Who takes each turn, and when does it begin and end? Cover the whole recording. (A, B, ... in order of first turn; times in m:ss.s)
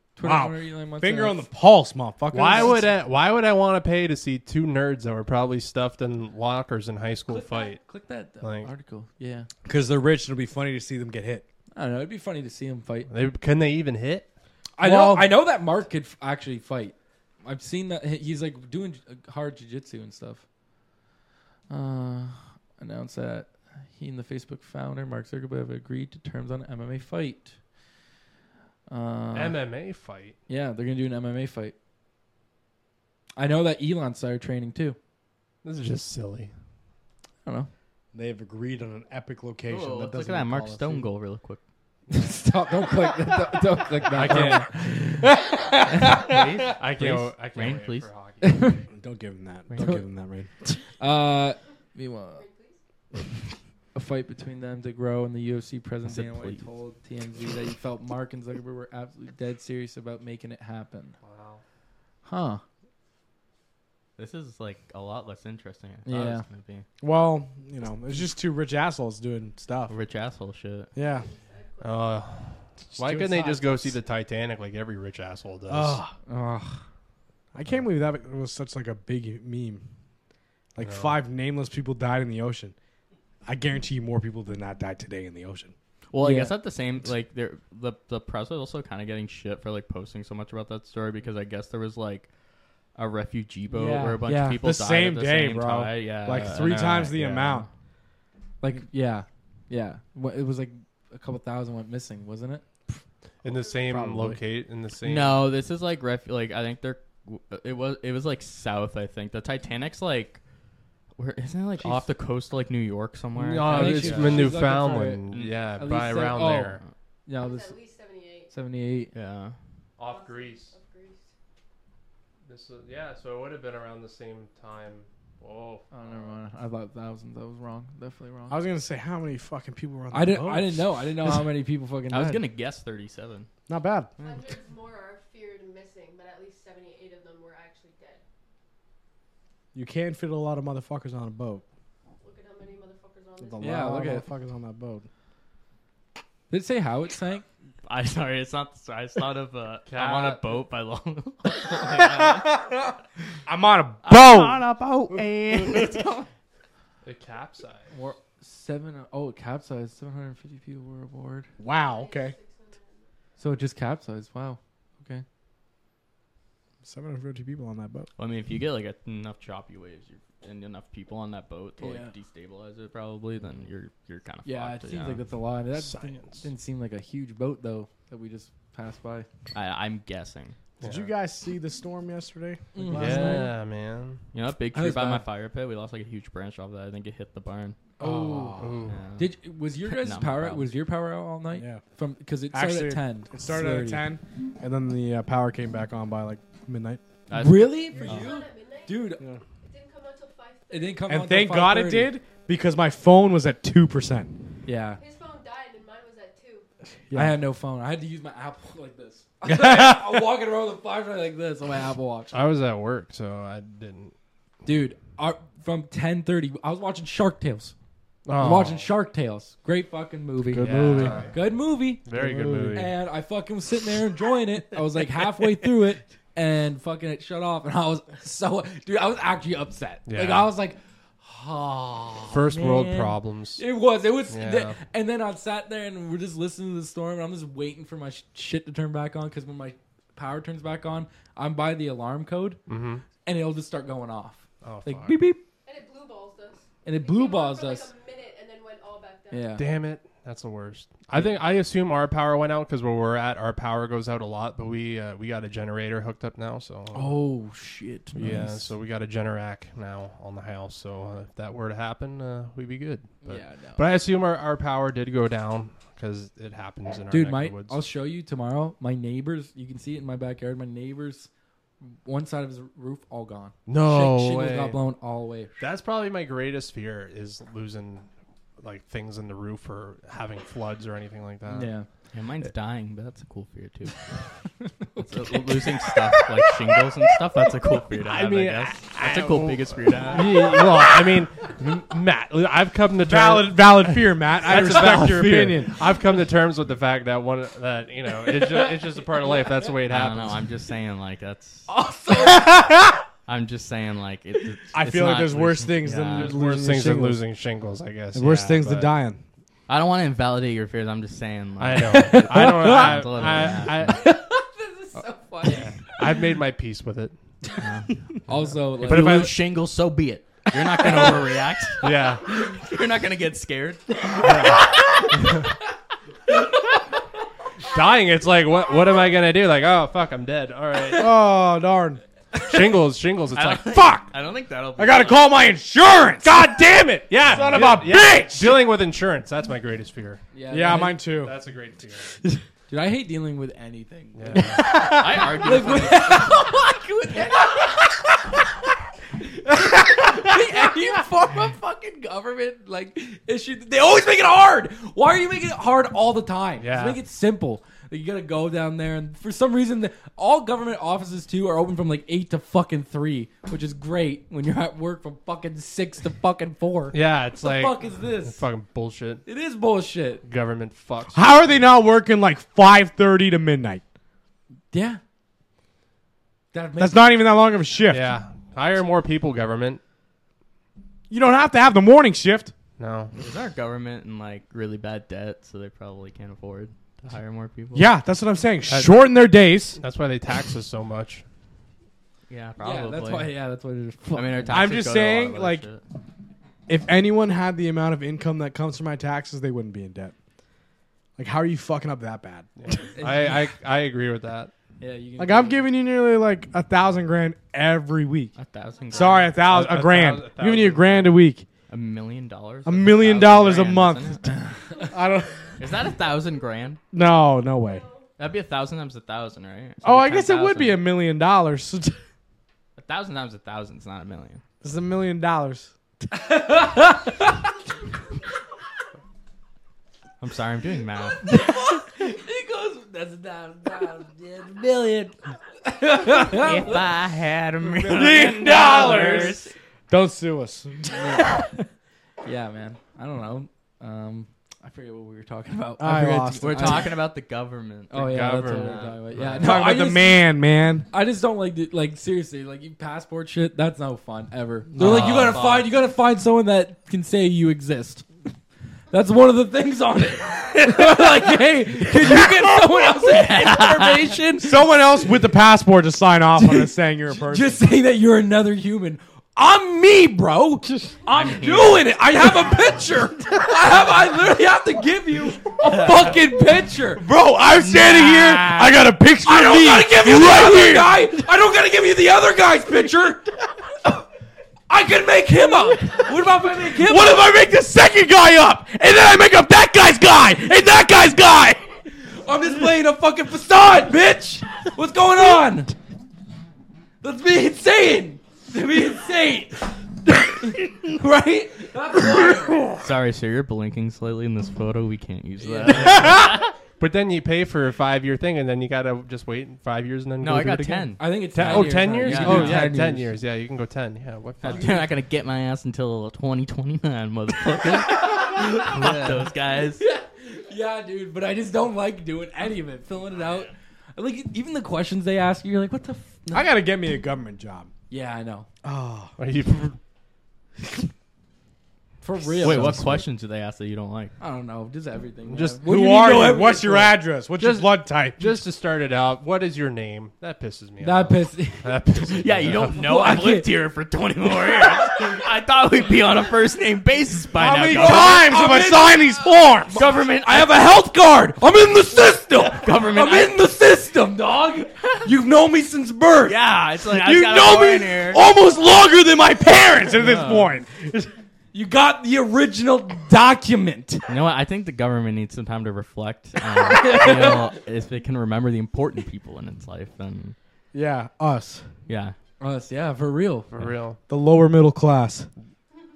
0:00.2-0:01.4 A
0:00.2-0:02.9 B
0:02.3-0:07.8 C
0:02.6-0:02.8 A
0:07.3-0:09.5 A
0:08.4-0:08.7 C
0:09.6-0:11.4 B
0:11.8-0:13.1 A
0:13.1-0:14.3 C
0:14.8-0:20.4 A
0:14.8-0:15.3 B
0:21.7-0:27.6 A
0:28.9-0:29.6 A
0:29.3-0:30.4 C
0:30.5-0:31.8 A
0:33.4-0:35.0 A
0:35.6-0:36.5 C
0:37.4-0:37.7 A
0:38.1-0:41.1 B
0:39.7-0:41.6 D
0:42.1-0:42.4 C
0:42.1-0:45.3 A
0:44.1-0:44.7 C
0:44.2-0:44.6 B
0:45.2-0:46.7 B
0:45.9-0:46.2 A
0:46.2-0:48.1 D
0:46.7-0:48.9 C
0:48.4-0:48.8 A
0:48.9-0:50.8 B
0:49.7-0:50.0 D
0:49.8-0:50.0 A
0:51.0-0:52.4 A
0:52.3-0:52.8 E
0:53.9-1:01.2 A
0:56.1-0:56.6 D
1:01.2-1:01.6 C
1:02.2-1:02.6 A
1:04.2-1:06.9 D
1:06.1-1:06.4 A
1:07.0-1:09.9 B
1:09.9-1:10.9 D
1:11.0-1:11.3 B
1:11.0-1:12.2 E
1:11.8-1:16.0 C
1:12.9-1:14.0 B
1:15.7-1:16.1 B
1:16.3-1:16.8 A
1:17.5-1:19.8 B
1:20.8-1:22.8 B
1:20.8-1:21.2 C
1:23.5-1:25.7 B
1:26.1-1:32.3 D
1:26.2-1:26.5 A
1:33.0-1:37.7 D
1:33.7-1:34.6 A
1:34.6-1:37.7 B
1:38.6-1:42.9 A
1:43.4-1:45.5 C
1:43.5-1:43.9 E
1:43.9-1:44.4 B
1:45.0-1:50.4 D
1:51.2-1:54.5 D
1:51.8-1:52.0 A
1:53.4-1:56.8 C
1:53.7-1:55.2 A
1:55.3-1:55.6 D
1:55.8-1:57.7 A
1:57.4-1:58.5 E
1:58.5-1:59.1 A
1:59.1-1:59.6 D
2:00.0-2:00.7 C
2:00.0-2:01.3 E
2:02.5-2:06.3 C
2:05.9-2:08.6 A
2:08.5-2:11.3 B
2:10.1-2:12.4 A
2:12.1-2:13.5 D
2:13.7-2:14.1 B
2:14.2-2:14.5 D
2:14.2-2:18.2 E
2:19.7-2:21.6 B
2:22.2-2:23.9 E
2:23.4-2:25.1 B
2:23.6-2:24.3 A
2:26.5-2:27.4 A
2:27.9-2:32.6 D
2:29.9-2:30.4 C
2:31.9-2:32.9 B
2:33.5-2:35.9 B
2:34.0-2:36.3 D
2:37.0-2:37.9 C
2:37.9-2:41.5 A
2:41.6-2:42.4 B
2:41.7-2:43.1 E
2:43.4-2:45.2 A
2:46.8-2:48.1 B
2:48.2-2:55.2 D
2:51.8-2:52.1 A
2:54.4-2:59.3 A
2:55.8-2:56.5 C
2:59.5-3:00.6 D
3:00.8-3:01.1 C
3:00.8-3:03.5 B
3:02.7-3:03.5 A
3:03.0-3:04.2 C
3:04.3-3:07.8 D
3:04.7-3:05.2 A
3:08.0-3:08.9 B
3:08.0-3:08.6 A
3:08.6-3:09.0 C
3:08.9-3:09.3 D
3:09.2-3:14.0 A
3:09.9-3:10.7 D
3:12.5-3:17.0 B
3:17.3-3:18.4 D
3:17.4-3:19.2 A
3:17.9-3:21.1 E
3:20.7-3:22.1 A
3:21.1-3:24.3 B
3:24.6-3:25.0 A
3:25.0-3:26.7 E
3:27.1-3:27.4 B
3:27.1-3:32.4 A
3:29.4-3:30.3 B
3:32.3-3:34.1 C
3:34.6-3:37.7 A
3:38.2-3:38.9 C
3:38.4-3:42.1 A
3:40.5-3:41.3 B
3:40.6-3:41.4 C
3:42.0-3:42.9 C
3:42.1-3:42.9 B
3:42.7-4:02.6 A
3:50.1-3:50.5 C
3:52.3-3:53.6 C
3:54.3-3:54.8 C
4:02.7-4:03.0 C
4:03.2-4:05.4 A
4:04.6-4:05.2 C
4:05.6-4:09.6 E
4:06.8-4:07.9 A
4:09.3-4:09.6 A
4:09.6-4:17.2 C
4:16.9-4:18.7 A
4:18.2-4:27.8 C
4:23.2-4:23.8 A
4:27.1-4:31.3 A
4:31.8-4:35.5 A
4:33.7-4:34.8 C
4:35.6-4:41.7 C
4:41.5-4:41.9 A
4:42.1-4:44.3 D
4:44.6-4:46.3 A
4:45.0-4:50.6 D
4:48.0-5:00.4 C
4:53.0-4:55.8 B
4:58.4-4:59.7 A
4:59.9-5:01.7 D
5:01.7-5:02.6 A
5:02.2-5:03.0 B
5:03.3-5:06.4 D
5:04.7-5:07.2 B
5:06.1-5:09.0 C
5:08.1-5:09.2 B
5:09.7-5:14.0 D
5:11.6-5:14.2 C
5:11.9-5:16.2 A
5:16.0-5:17.2 C
5:17.6-5:18.3 D
5:18.3-5:19.3 A
5:18.8-5:25.1 D
5:18.8-5:19.3 C
5:18.9-5:19.3 B
5:20.8-5:21.2 B
5:21.8-5:22.2 C
5:24.2-5:25.5 C
5:27.6-5:31.1 C
5:30.9-5:32.0 B
5:32.4-5:33.9 C
5:33.3-5:35.3 D
5:33.7-5:34.1 B
5:34.8-5:38.7 B
5:36.2-5:40.2 C
5:40.3-5:41.0 A
5:40.5-5:41.3 B
5:41.1-5:42.1 C
5:42.7-5:48.2 A
5:44.2-5:44.7 C
5:44.5-5:45.2 B
5:44.7-5:46.4 D
5:49.2-6:08.5 A
5:56.6-5:57.0 C
6:06.9-6:09.2 C
6:09.2-6:10.2 A
6:10.2-6:11.2 C
6:11.1-6:13.8 B
6:14.7-6:15.0 A
6:16.5-6:17.2 A
6:16.8-6:18.2 B
6:17.9-6:19.8 C
6:21.1-6:22.5 B
6:22.8-6:23.2 C
6:23.2-6:27.9 D
6:27.7-6:29.8 B
6:28.7-6:29.1 C
6:29.8-6:31.2 C
6:32.3-6:33.3 D
6:32.6-6:34.6 A
6:34.1-6:35.8 D
6:34.5-6:35.7 B
6:36.7-6:40.1 B
6:41.2-6:42.8 B
6:42.6-6:44.5 C
6:43.0-6:43.4 A
6:44.8-6:45.7 A
6:45.2-6:48.4 B
6:48.4-6:49.4 D
6:48.7-6:49.3 E
6:48.9-6:51.5 B
6:49.4-6:51.1 C
6:51.7-6:54.3 D
6:52.7-6:55.6 B
6:55.6-6:56.8 D
6:56.9-6:57.8 B
6:57.6-6:58.1 E
6:58.2-7:00.8 D
6:59.8-7:02.0 B
7:02.8-7:04.4 D
7:04.6-7:05.7 B
7:06.1-7:07.5 A
7:10.2-7:11.4 D
7:11.3-7:16.8 A
7:16.3-7:19.5 D
7:17.8-7:19.3 A
7:17.9-7:21.6 B
7:20.9-7:21.3 A
7:22.2-7:27.0 A
7:25.8-7:26.9 B
7:26.4-7:29.4 D
7:27.9-7:30.3 A
7:28.0-7:29.4 C
7:29.4-7:30.9 B
7:30.9-7:38.1 A
7:34.7-7:35.4 B
7:34.8-7:35.4 C
7:35.0-7:35.7 D
7:38.9-7:44.7 A
7:43.0-7:44.1 D
7:44.4-7:47.6 B
7:46.4-7:57.1 A
7:51.1-7:52.0 D
7:55.7-7:56.2 D
7:57.0-8:01.2 B
7:57.4-7:58.6 D
7:57.9-7:58.7 A
7:59.2-8:03.3 A
8:04.7-8:07.3 A
8:06.7-8:11.7 B
8:11.9-8:15.7 A
8:17.0-8:19.7 A
8:20.3-8:22.7 A
8:22.8-8:26.5 D
8:25.4-8:26.2 A
8:26.0-8:34.9 C
8:30.2-8:32.7 D
8:31.0-8:33.2 A
8:34.4-8:39.8 D
8:37.7-8:38.8 A
8:38.7-8:39.3 C
8:39.8-8:46.5 A
8:46.3-8:47.7 B
8:47.9-8:48.5 A
8:48.6-8:49.1 B
8:49.2-8:49.8 C
8:52.0-8:53.1 A
8:52.4-8:52.8 B
8:52.4-8:54.2 D
8:54.2-8:57.0 A
8:55.3-8:55.9 C
8:55.7-8:58.4 B
8:57.4-9:02.8 C
9:00.8-9:01.7 A
9:02.0-9:08.3 D
9:02.7-9:03.5 A
9:07.4-9:09.8 B
9:07.5-9:18.7 A
9:09.8-9:10.6 D
9:12.5-9:13.4 D
9:16.3-9:18.2 D
9:18.2-9:21.1 B
9:19.8-9:20.3 A
9:20.0-9:20.5 D
9:21.5-9:24.0 A
9:24.1-9:30.4 D
9:26.6-9:27.6 A
9:30.7-9:31.7 B
9:31.9-9:32.2 D
9:32.4-9:33.5 A
9:33.5-9:34.0 C
9:34.1-9:35.3 B